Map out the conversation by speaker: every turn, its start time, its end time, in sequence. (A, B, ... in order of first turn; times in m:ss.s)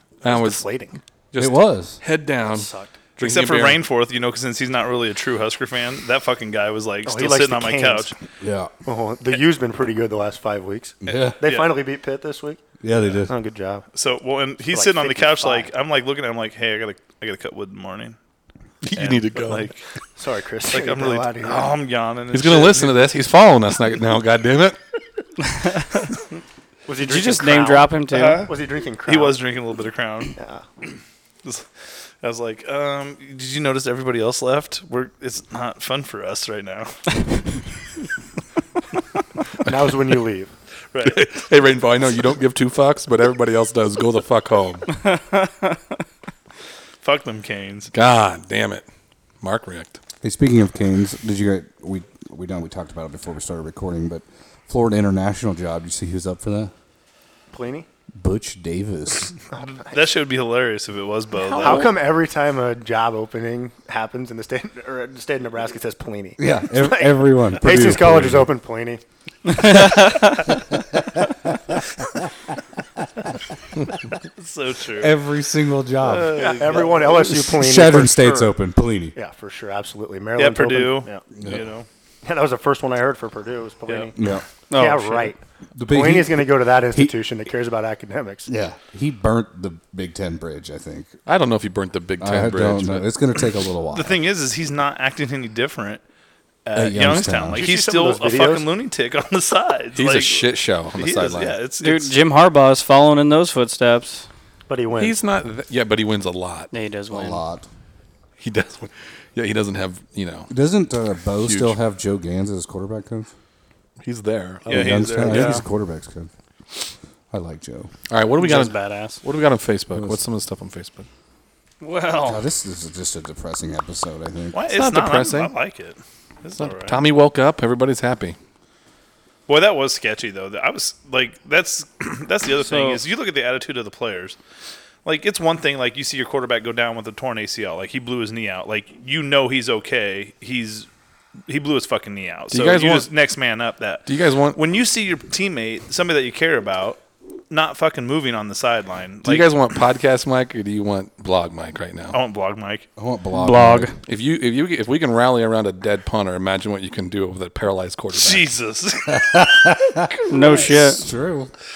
0:00.2-0:00.6 A
0:00.2-0:01.0 B
0:01.3-0:03.8 A
0:01.4-0:02.0 C
0:02.5-0:02.9 B
0:03.2-0:08.1 D
0:07.0-0:08.1 B
0:08.4-0:08.7 C
0:08.8-0:12.6 B
0:11.0-0:11.4 C
0:11.1-0:11.7 D
0:12.8-0:13.3 C
0:13.2-0:13.8 B
0:13.9-0:18.2 D
0:14.7-0:15.7 B
0:18.8-0:19.7 A
0:19.0-0:19.8 D
0:20.2-0:21.7 B
0:20.7-0:23.2 D
0:22.3-0:24.8 A
0:25.5-0:26.0 E
0:26.8-0:29.4 B
0:27.0-0:28.5 E
0:28.1-0:28.5 D
0:29.0-0:30.4 D
0:30.4-0:30.6 B
0:31.4-0:31.7 D
0:32.2-0:37.0 D
0:39.6-0:40.5 B
0:40.9-0:41.2 D
0:41.0-0:44.9 A
0:45.0-0:45.8 E
0:47.0-0:47.9 D
0:47.9-0:48.9 A
0:49.4-0:50.0 A
0:50.2-0:56.7 C
0:57.5-0:57.9 B
0:58.1-0:59.3 C
0:59.6-0:59.8 B
0:59.6-1:01.9 D
1:01.5-1:09.0 B
1:06.4-1:08.5 C
1:09.6-1:10.3 E
1:10.9-1:11.7 C
1:14.4-1:15.1 D
1:14.9-1:19.1 C
1:16.0-1:17.2 D
1:16.3-1:18.5 B
1:19.1-1:21.2 B
1:20.4-1:21.9 D
1:21.4-1:21.6 C
1:22.2-1:24.2 B
1:24.2-1:24.4 C
1:24.7-1:25.3 E
1:24.7-1:28.5 B
1:25.7-1:27.1 C
1:28.5-1:31.1 C
1:31.2-1:33.1 A
1:32.2-1:34.2 C
1:33.9-1:36.0 D
1:36.6-1:42.1 D
1:36.7-1:37.6 C
1:37.6-1:38.7 B
1:39.9-1:41.6 A
1:41.8-1:44.3 E
1:44.7-1:45.2 B
1:45.0-1:46.7 A
1:46.7-1:47.4 E
1:47.1-1:47.6 C
1:48.4-1:50.5 A
1:50.5-1:53.3 C
1:51.4-1:51.7 A
1:54.0-1:55.5 A
1:54.6-1:55.6 D
1:54.7-1:56.3 C
1:57.3-1:57.9 C
1:58.1-2:01.1 A
1:58.4-1:59.2 E
1:59.9-2:00.2 C
2:01.8-2:02.4 E
2:02.2-2:04.6 C
2:04.5-2:07.0 D
2:04.7-2:05.5 A
2:06.6-2:08.4 A
2:09.5-2:14.4 D
2:12.6-2:13.0 E
2:15.0-2:20.9 D
2:21.5-2:29.5 D
2:22.5-2:23.1 A
2:24.1-2:24.6 A
2:29.2-2:32.2 A
2:32.1-2:32.8 D
2:33.0-2:33.9 C
2:33.3-2:34.0 E
2:34.0-2:38.5 A
2:38.1-2:41.0 D
2:39.1-2:40.1 C
2:40.3-2:41.0 E
2:40.7-2:41.5 C